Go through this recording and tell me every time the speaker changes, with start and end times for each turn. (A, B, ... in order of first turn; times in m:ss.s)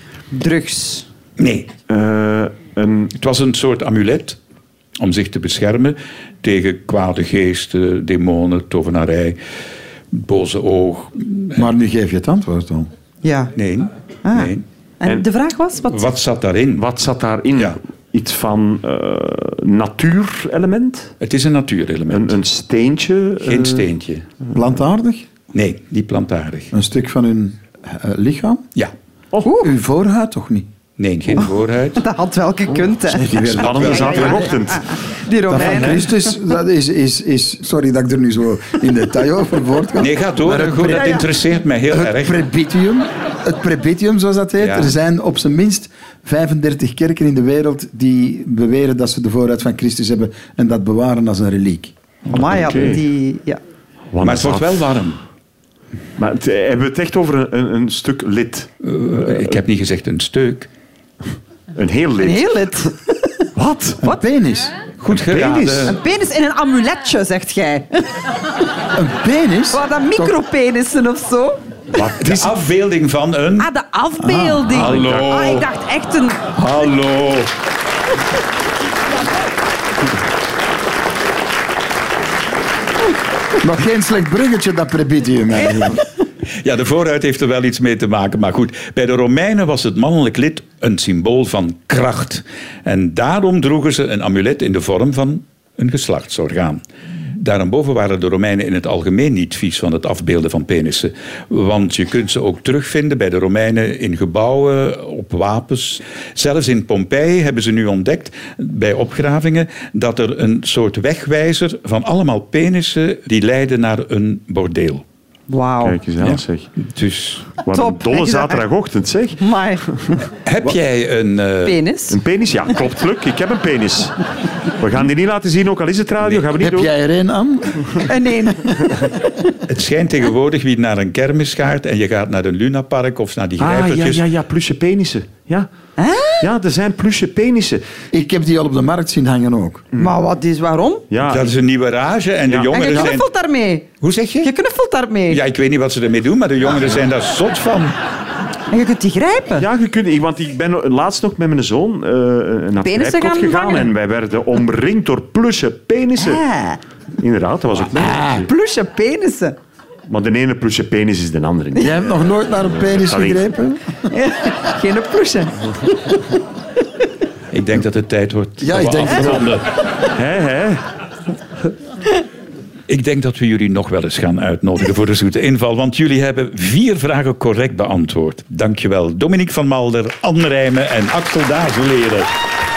0:00.3-0:01.1 A
0:01.4-0:01.7 B
0:01.9-0:03.1 C
0:03.2-0:04.4 B
0:05.0-0:09.4 B
0:10.1-0:11.6 B
0:11.5-0:12.9 D
0:13.2-0:13.5 A
0:13.5-0:14.6 B
0:14.2-0:16.1 A
0:15.9-0:16.8 B
0:16.8-0:21.1 C
0:21.2-0:22.4 B
0:22.1-0:23.8 C
0:23.4-0:24.2 B
0:24.5-0:25.3 D
0:25.5-0:26.7 B
0:26.7-0:28.6 D
0:29.4-0:29.7 A
0:29.6-0:30.7 D
0:31.0-0:32.0 B
0:32.0-0:33.2 A
0:33.1-0:35.0 C
0:33.2-0:34.0 D
0:33.3-0:34.6 B
0:33.9-0:36.3 A
0:35.5-0:41.2 D
0:40.0-0:42.4 B
0:41.9-0:51.9 D
0:44.6-0:44.9 B
0:52.3-0:53.0 B
0:52.3-0:53.6 A
0:52.3-0:53.0 C
0:54.1-0:54.8 C
0:54.2-0:55.2 B
0:56.2-0:58.7 C
0:58.8-1:00.7 B
0:59.2-0:59.5 C
1:01.7-1:02.5 C
1:02.2-1:03.1 A
1:03.5-1:04.0 C
1:04.0-1:04.8 D
1:05.0-1:06.0 B
1:05.1-1:05.9 C
1:05.8-1:08.2 A
1:08.9-1:10.3 D
1:09.7-1:11.6 A
1:11.9-1:12.5 C
1:12.2-1:13.7 B
1:13.6-1:16.4 A
1:14.2-1:14.7 D
1:14.7-1:15.6 B
1:14.8-1:15.2 C
1:16.5-1:17.5 B
1:23.6-1:26.0 D
1:26.6-1:55.0 B
1:55.5-1:56.0 A
1:55.8-1:56.7 C
1:56.2-1:57.6 B
1:57.6-1:59.4 C
1:57.7-1:58.6 A
1:59.4-1:59.8 A
2:00.4-2:01.8 B
2:01.6-2:02.2 A
2:02.1-2:04.2 C
2:04.7-2:06.9 C
2:06.6-2:08.1 D
2:08.0-2:09.3 A
2:08.7-2:09.0 D
2:09.7-2:14.2 B
2:13.6-2:15.7 C
2:16.0-2:16.5 A
2:16.4-2:17.8 C
2:18.1-2:19.8 D
2:20.0-2:21.0 A
2:21.1-2:21.5 C
2:21.2-2:23.3 B
2:22.5-2:23.1 C
2:22.7-2:23.9 A
2:24.0-2:24.5 B
2:24.4-2:25.4 A
2:25.3-2:27.9 B
2:28.7-2:29.6 A
2:29.6-2:36.4 C
2:32.8-2:33.9 A
2:36.2-2:36.8 A
2:37.2-2:38.5 C
2:38.0-2:38.4 D
2:38.4-2:39.6 A
2:40.1-2:42.2 C
2:41.8-2:43.9 D
2:42.8-2:43.5 C
2:44.0-2:45.9 A
2:47.5-2:49.7 B
2:48.6-2:49.5 D
2:50.1-2:50.8 C
2:52.9-3:02.3 B